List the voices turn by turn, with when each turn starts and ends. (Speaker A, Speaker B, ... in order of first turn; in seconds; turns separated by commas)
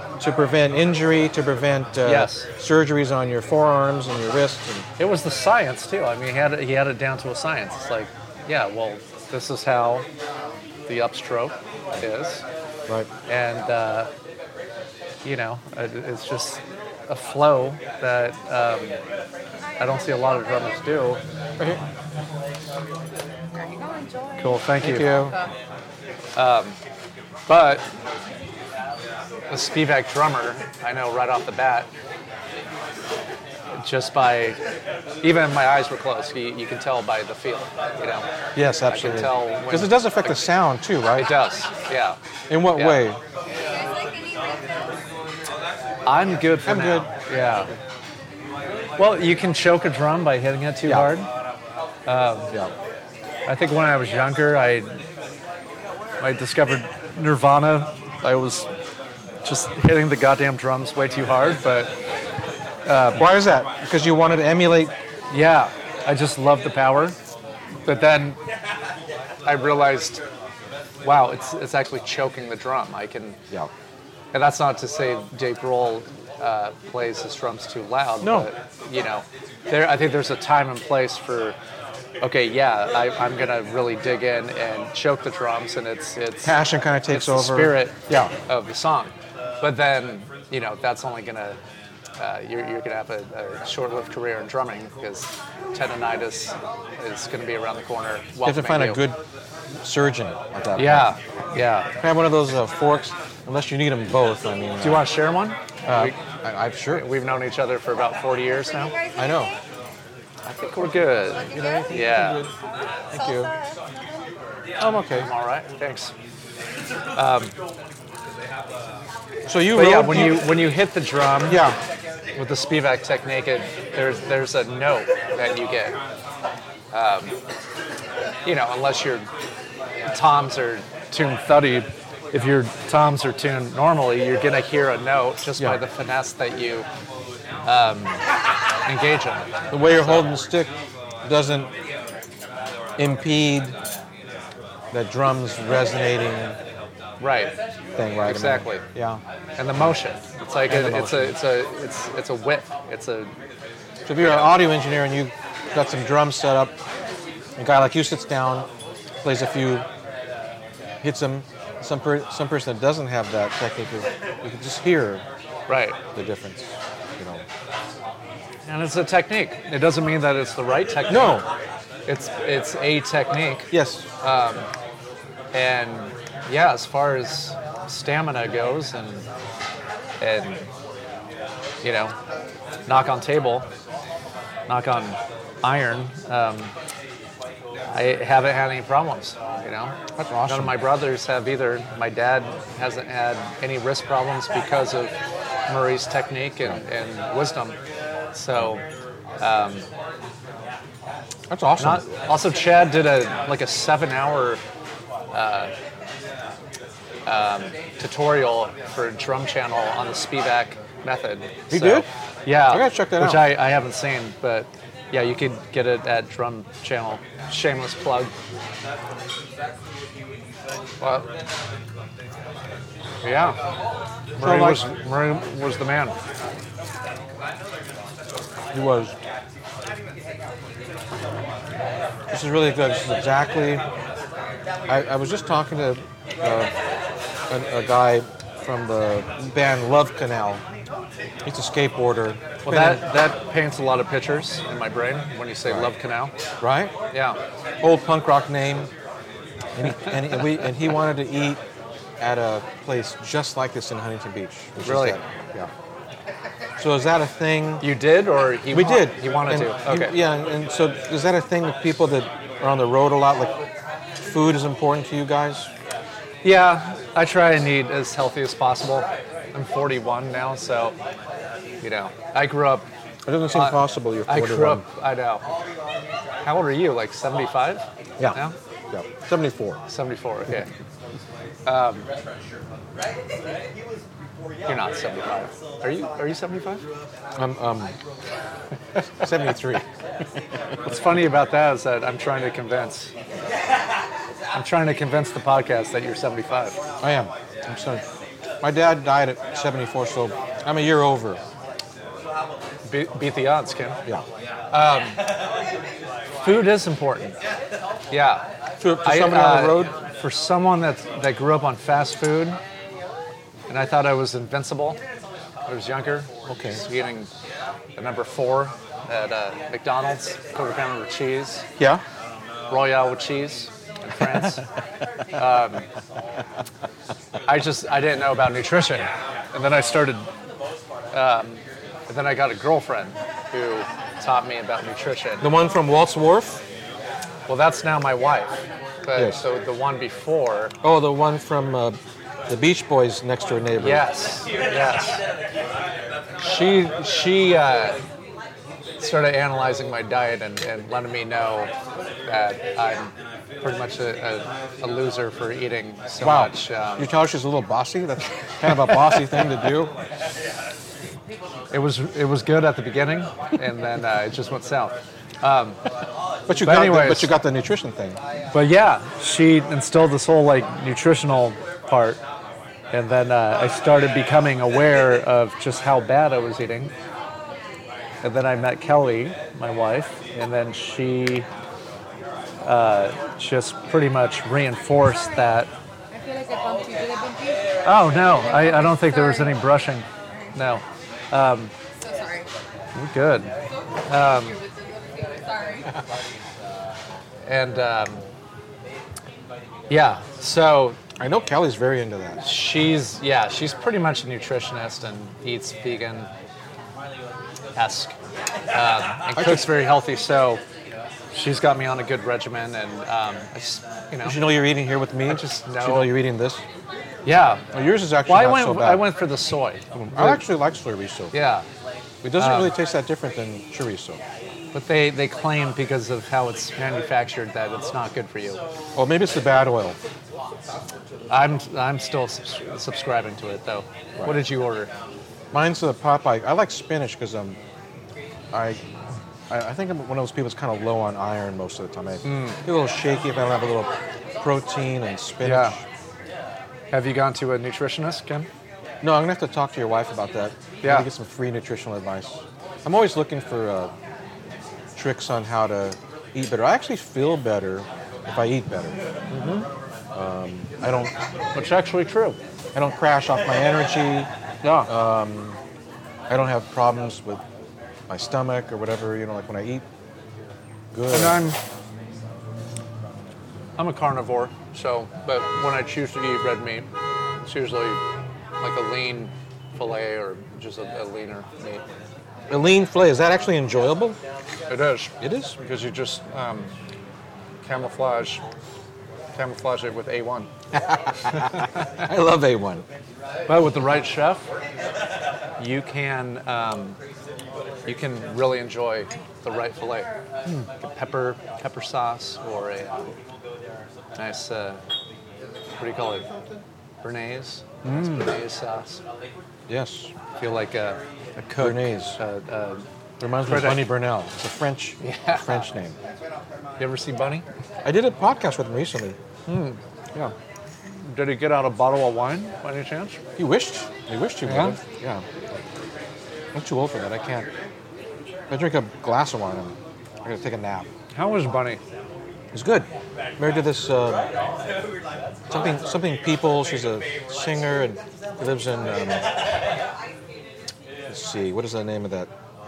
Speaker A: 0.2-4.9, Speaker B: 2.0-2.5, Speaker B: 5.0-10.1, Speaker B: 10.9-12.4, Speaker B: 13.3-14.1, Speaker B: 15.2-19.0, Speaker B: 19.8-21.2, Speaker C: 19.8-20.7, Speaker C: 23.6-25.5, Speaker B: 24.4-25.1, Speaker A: 24.8-25.4, Speaker B: 26.4-26.8, Speaker B: 27.5-27.9, Speaker B: 29.5-31.9, Speaker B: 33.8-34.6, Speaker B: 35.2-38.3, Speaker A: 38.5-41.3, Speaker B: 38.9-40.5, Speaker B: 41.1-42.2, Speaker A: 42.5-43.2, Speaker B: 42.7-43.1, Speaker C: 43.6-44.9, Speaker B: 46.1-47.7, Speaker A: 46.7-47.1, Speaker B: 49.0-51.3, Speaker A: 50.9-51.1, Speaker B: 52.1-52.5, Speaker B: 53.5-55.0, Speaker B: 56.2-58.7, Speaker B: 59.4-61.9, Speaker B: 62.9-63.2, Speaker A: 63.1-64.9, Speaker B: 65.3-67.2, Speaker B: 67.9-68.4, Speaker B: 69.5-70.2, Speaker B: 71.0-73.4, Speaker B: 74.3-81.6, Speaker A: 78.2-78.5, Speaker B: 82.2-86.6, Speaker A: 86.4-88.3, Speaker B: 87.1-91.6, Speaker B: 92.2-99.0, Speaker A: 98.4-99.2, Speaker A: 99.8-101.1, Speaker B: 100.8-101.9, Speaker A: 102.0-105.1, Speaker B: 104.8-106.2, Speaker A: 105.9-107.0, Speaker B: 106.9-108.9, Speaker C: 108.8-109.6, Speaker A: 109.2-109.5, Speaker B: 110.5-112.5, Speaker C: 111.3-112.1, Speaker A: 111.5-112.5, Speaker A: 113.1-113.5, Speaker C: 113.1-114.3, Speaker A: 114.8-115.3, Speaker B: 115.2-116.1, Speaker B: 117.2-117.5, Speaker A: 119.5-120.5, Speaker B: 119.7-121.6, Speaker A: 121.5-121.8, Speaker B: 122.4-126.0, Speaker B: 126.9-127.3, Speaker B: 128.4-129.3, Speaker B: 130.1-136.9, Speaker B: 137.7-138.2, Speaker B: 138.9-140.3, Speaker A: 139.7-140.7, Speaker A: 141.2-141.7, Speaker A: 143.0-143.8, Speaker A: 144.9-146.6, Speaker B: 147.2-147.5, Speaker A: 148.0-149.2, Speaker B: 148.2-148.8, Speaker B: 149.6-153.3, Speaker A: 150.7-151.4, Speaker A: 154.1-156.8, Speaker B: 154.2-154.6, Speaker A: 157.6-158.7, Speaker A: 159.2-159.9, Speaker A: 161.0-165.2, Speaker B: 165.7-166.0, Speaker A: 166.2-167.4, Speaker B: 168.7-171.4, Speaker A: 171.1-171.5, Speaker B: 172.1-173.7, Speaker A: 173.7-174.1, Speaker B: 174.2-174.7, Speaker B: 175.5-179.3, Speaker B: 180.2-180.7, Speaker B: 181.8-182.1, Speaker B: 182.9-183.7, Speaker B: 184.7-186.7, Speaker B: 187.9-195.1, Speaker A: 190.2-190.8, Speaker B: 195.7-197.8, Speaker B: 198.3-198.8, Speaker B: 199.4-199.9, Speaker A: 201.5-202.1, Speaker B: 201.8-204.6, Speaker B: 205.3-205.7, Speaker B: 207.3-218.3, Speaker A: 211.7-212.1, Speaker A: 212.7-213.5, Speaker B: 221.0-221.3, Speaker B: 223.2-223.6, Speaker B: 224.4-226.2, Speaker A: 224.4-224.9, Speaker A: 228.7-229.2, Speaker A: 232.3-233.8, Speaker A: 234.9-236.7, Speaker A: 237.5-240.6, Speaker A: 241.4-243.0, Speaker B: 242.6-246.3, Speaker A: 245.7-245.9, Speaker A: 246.6-246.9, Speaker B: 247.1-247.4, Speaker A: 247.8-248.9, Speaker A: 249.8-251.6, Speaker A: 252.2-255.7, Speaker B: 254.8-255.2, Speaker A: 256.8-257.9, Speaker B: 257.8-260.1, Speaker A: 258.7-263.6, Speaker A: 264.2-265.7, Speaker B: 266.4-271.0, Speaker B: 271.8-272.9, Speaker A: 273.3-274.8, Speaker B: 273.5-275.4, Speaker B: 276.4-278.6, Speaker A: 278.9-279.8, Speaker B: 279.9-280.7, Speaker B: 281.7-282.1, Speaker B: 284.7-286.8, Speaker A: 287.4-287.9, Speaker A: 289.2-289.8, Speaker B: 290.9-293.1, Speaker B: 294.5-296.8, Speaker A: 297.0-298.0, Speaker A: 298.6-301.4, Speaker B: 302.9-304.0, Speaker B: 304.7-305.2, Speaker B: 306.4-307.4, Speaker B: 308.1-308.4, Speaker A: 308.8-309.9, Speaker B: 309.0-312.6, Speaker B: 313.7-315.0, Speaker B: 315.7-317.3, Speaker A: 316.5-316.8, Speaker B: 318.0-321.7, Speaker B: 322.7-324.6, Speaker B: 325.3-325.9, Speaker B: 327.5-330.3, Speaker B: 331.1-335.5, Speaker A: 335.4-336.6, Speaker B: 337.5-340.8, Speaker A: 339.1-339.4, Speaker A: 340.8-342.0, Speaker A: 342.5-344.0, Speaker B: 343.8-345.2, Speaker B: 346.4-348.0, Speaker B: 349.0-351.7, Speaker B: 352.3-357.1, Speaker A: 356.2-359.9, Speaker B: 361.7-365.8, Speaker A: 366.5-368.2, Speaker B: 366.6-367.4, Speaker B: 368.5-372.2, Speaker B: 372.9-376.9, Speaker B: 378.2-381.5, Speaker B: 382.6-385.7, Speaker C: 386.1-389.6, Speaker B: 387.9-391.7, Speaker C: 392.0-392.5, Speaker B: 392.9-393.5, Speaker B: 394.1-394.6, Speaker C: 394.5-395.9, Speaker B: 397.5-398.2, Speaker B: 399.9-401.0, Speaker A: 401.2-402.4, Speaker B: 402.4-406.3, Speaker B: 407.8-408.1, Speaker B: 408.7-410.6, Speaker A: 409.3-409.7, Speaker B: 411.3-414.4, Speaker A: 414.2-416.6, Speaker B: 415.3-416.1, Speaker B: 417.2-417.6, Speaker A: 417.7-419.1, Speaker B: 418.3-420.4, Speaker A: 419.9-421.3, Speaker B: 421.3-421.7, Speaker A: 422.2-424.2, Speaker B: 422.4-422.7, Speaker B: 424.7-428.6, Speaker A: 429.0-430.0, Speaker B: 431.3-434.9, Speaker A: 435.5-437.6, Speaker A: 438.5-438.8, Speaker A: 439.5-445.8, Speaker B: 442.2-442.6, Speaker B: 445.4-445.8, Speaker B: 446.9-448.5, Speaker A: 449.0-453.9, Speaker A: 455.0-459.0, Speaker B: 459.3-459.7, Speaker A: 460.1-461.1, Speaker B: 461.5-462.4, Speaker A: 462.8-465.6, Speaker B: 464.6-464.9, Speaker A: 466.3-467.4, Speaker A: 468.1-469.9, Speaker A: 470.9-471.4, Speaker B: 471.1-471.6, Speaker B: 473.8-476.9, Speaker B: 477.4-478.0, Speaker B: 478.6-481.8, Speaker A: 482.5-484.2, Speaker B: 484.7-486.7, Speaker A: 485.2-485.6, Speaker B: 487.6-488.4, Speaker B: 489.4-490.5, Speaker A: 490.7-492.9, Speaker B: 491.3-491.9, Speaker B: 493.5-494.5, Speaker B: 495.6-497.0, Speaker B: 497.9-503.1, Speaker B: 504.2-504.8, Speaker B: 505.8-506.3, Speaker B: 507.0-509.0, Speaker A: 507.8-508.3, Speaker A: 509.7-510.1, Speaker B: 510.4-512.9, Speaker A: 511.6-512.2, Speaker A: 513.2-516.0, Speaker B: 513.4-513.9, Speaker B: 515.0-515.6, Speaker B: 516.8-517.5, Speaker A: 517.8-519.2, Speaker B: 519.5-519.8, Speaker B: 521.0-523.2, Speaker A: 523.4-525.2, Speaker B: 524.5-524.8, Speaker A: 526.5-527.5, Speaker A: 528.5-530.9, Speaker B: 531.1-531.8, Speaker A: 532.5-534.3, Speaker A: 535.5-539.3, Speaker A: 541.1-542.3